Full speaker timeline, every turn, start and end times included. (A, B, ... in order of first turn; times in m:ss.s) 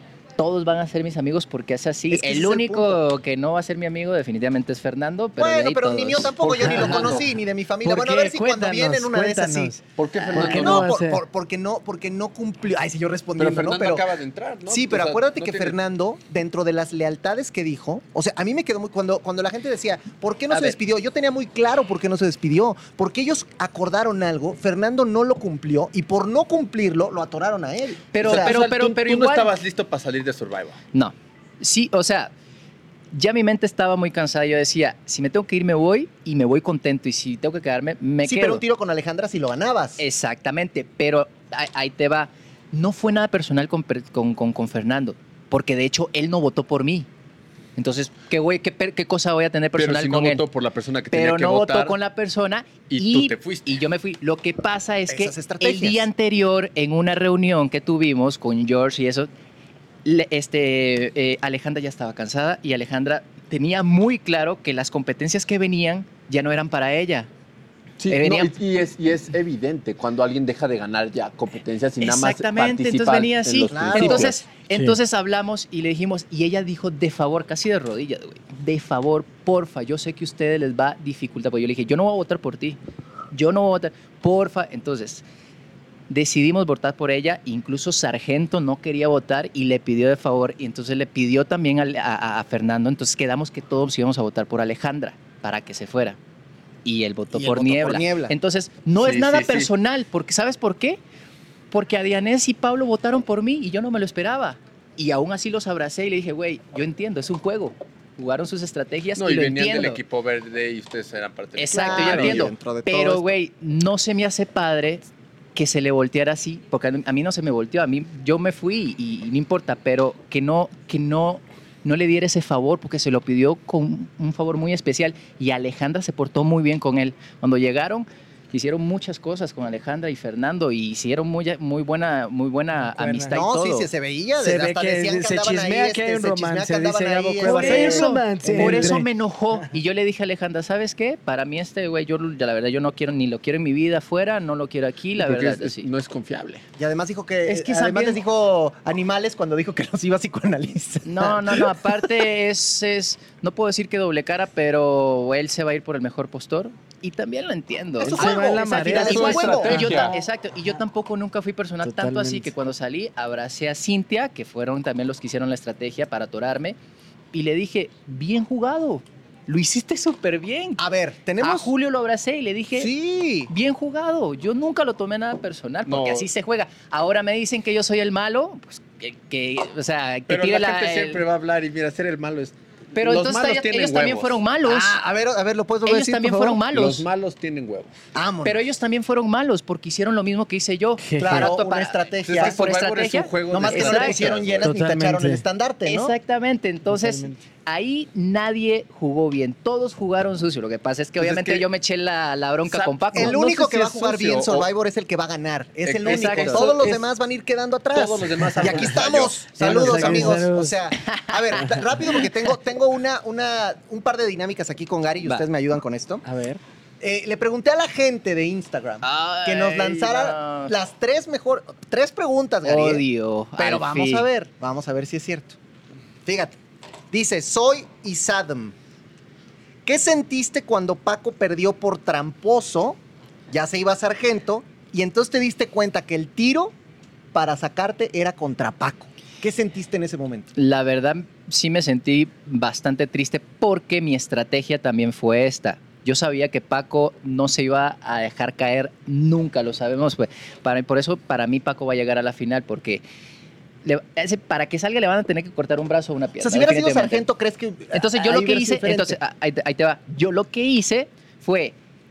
0:00.4-0:07.2 A
0:02.1-0:03.0 B
0:05.4-0:14.1 B
0:06.5-0:07.2 C
0:07.8-0:09.8 C
0:10.0-0:10.9 D
0:10.3-0:11.2 C
0:13.4-0:15.8 D
0:14.7-0:28.6 B
0:20.5-0:20.8 A
0:28.1-0:29.5 A
0:28.2-0:30.8 D
0:30.9-0:32.3 A
0:33.1-0:38.6 A
0:38.2-0:40.0 B
0:40.0-0:47.1 A
0:47.8-0:50.4 A
0:49.8-0:52.0 D
0:51.1-0:59.3 A
0:52.9-0:53.8 D
0:55.1-0:56.1 B
1:00.0-1:07.3 A
1:08.0-1:14.4 D
1:08.1-1:08.5 A
1:12.0-1:22.8 A
1:13.7-1:14.3 B
1:14.7-1:15.0 C
1:23.3-1:25.2 A
1:26.1-1:36.2 A
1:36.8-1:41.0 A
1:37.3-1:38.3 B
1:39.0-1:39.7 D
1:41.7-1:50.0 A
1:49.2-1:52.5 D
1:51.6-2:13.9 A
1:51.7-1:53.3 B
2:12.7-2:13.3 C
2:13.3-2:18.9 B
2:14.4-2:19.1 C
2:17.4-2:25.9 A
2:25.2-2:26.6 D
2:26.8-2:31.8 B
2:27.5-2:28.2 A
2:31.0-2:46.8 A
2:38.0-2:40.3 C
2:38.1-2:40.1 B
2:38.8-2:40.1 D
2:41.8-2:42.5 C
2:47.3-2:50.8 A
2:50.8-2:51.7 B
2:51.4-2:52.9 A
2:52.8-2:53.5 B
2:53.5-3:01.2 A
2:55.9-2:56.3 D
3:00.3-3:04.4 D
3:02.9-3:05.0 A
3:04.6-3:06.6 B
3:05.8-3:07.1 A
3:06.7-3:07.9 D
3:08.1-3:08.6 B
3:08.4-3:14.3 A
3:11.0-3:11.5 C
3:11.2-3:12.6 B
3:12.2-3:14.7 D
3:13.5-3:16.2 B
3:14.6-3:15.4 C
3:15.8-3:23.4 A
3:16.8-3:17.4 C
3:21.2-3:21.6 D
3:22.7-3:24.7 D
3:23.1-3:36.2 B
3:25.8-3:27.1 D
3:26.0-3:26.7 A
3:27.9-3:30.5 D
3:29.6-3:30.7 C
3:31.0-3:32.2 A
3:35.2-3:35.5 A
3:36.2-3:36.6 C
3:37.0-3:43.0 B
3:39.0-3:40.7 A
3:42.6-3:44.3 A
3:43.6-3:45.6 B
3:46.2-3:46.6 B
3:47.1-3:48.7 B
3:49.8-3:53.0 B
3:53.5-3:56.7 B
3:57.3-4:00.5 B
4:00.5-4:13.0 A
4:13.8-4:17.2 A
4:16.4-4:19.2 B
4:17.9-4:21.8 A